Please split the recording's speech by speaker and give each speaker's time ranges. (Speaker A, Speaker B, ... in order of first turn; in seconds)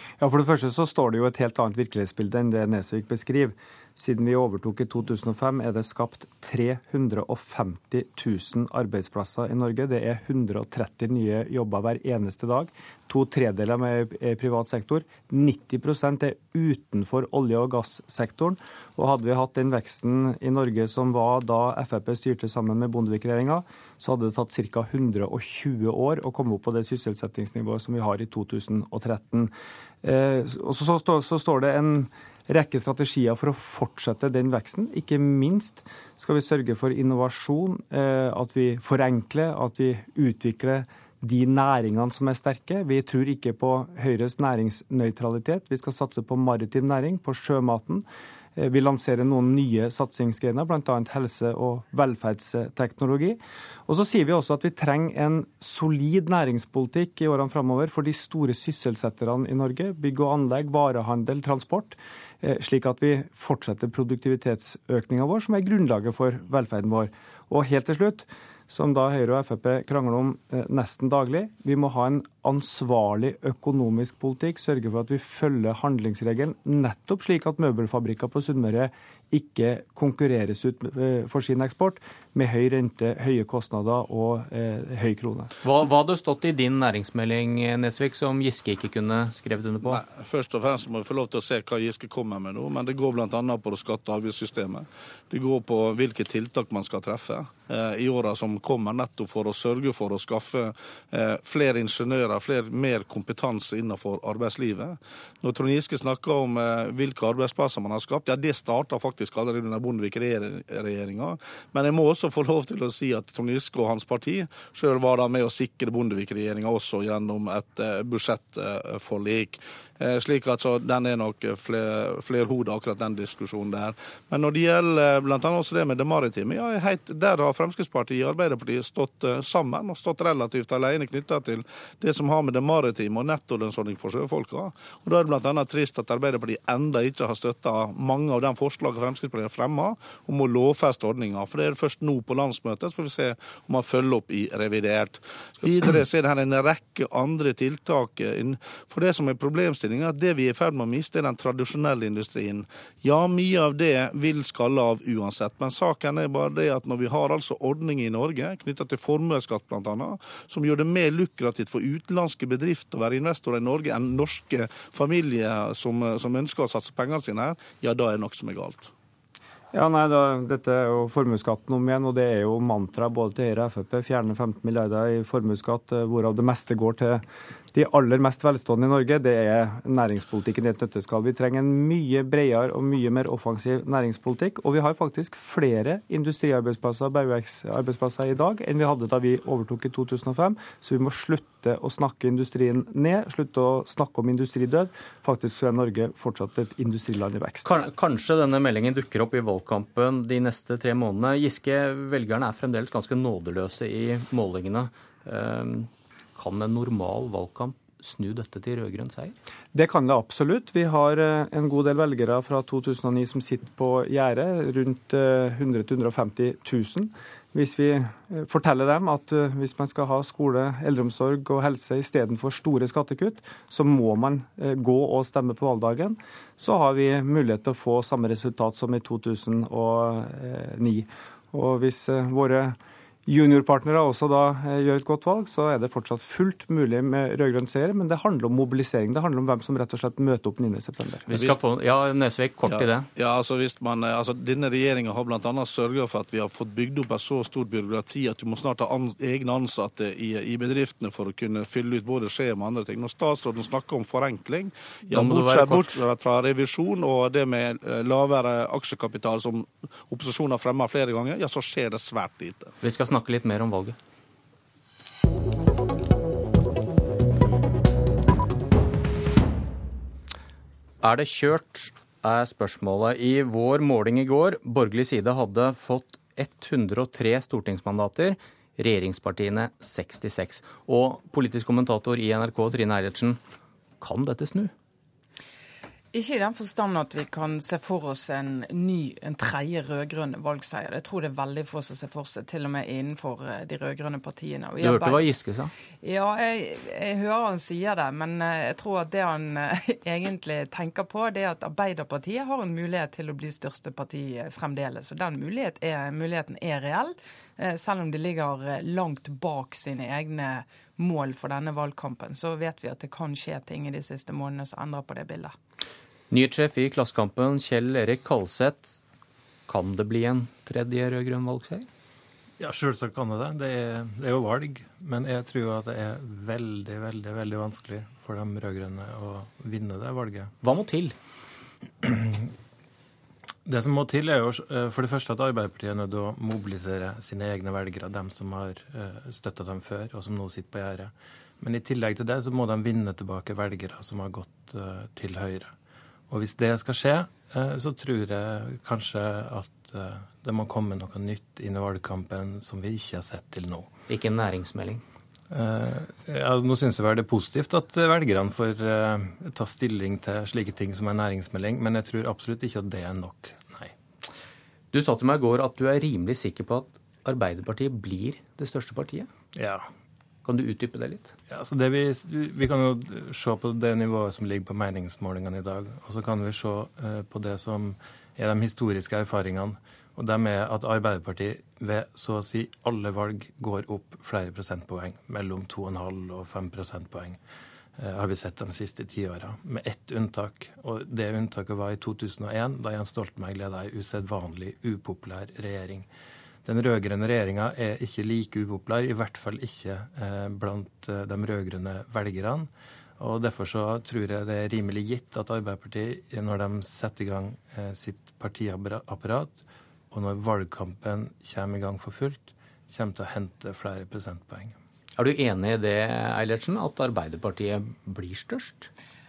Speaker A: 0.2-29.5, 30.0-48.0, 48.6-85.5, 169.7-177.2, 177.7-197.7, 209.7-232.8, 233.3-241.2
Speaker B: 85.6-90.0, 197.6-209.4, 241.3-243.1, 255.1-256.1, 262.8-264.0, 271.0-283.4, 284.0-284.7, 294.8-295.7, 316.3-319.0, 319.7-321.9, 330.6-331.1, 354.1-355.0, 364.9-369.3, 370.4-371.3, 415.2-418.9
Speaker C: 89.8-168.9, 242.7-262.7
Speaker D: 286.1-295.3, 296.0-315.5
Speaker E: 322.6-330.5, 332.0-332.3, 333.7-345.7, 346.3-353.9, 355.5-363.9, 369.6-369.9, 371.5-387.4, 388.0-396.1, 396.6-414.8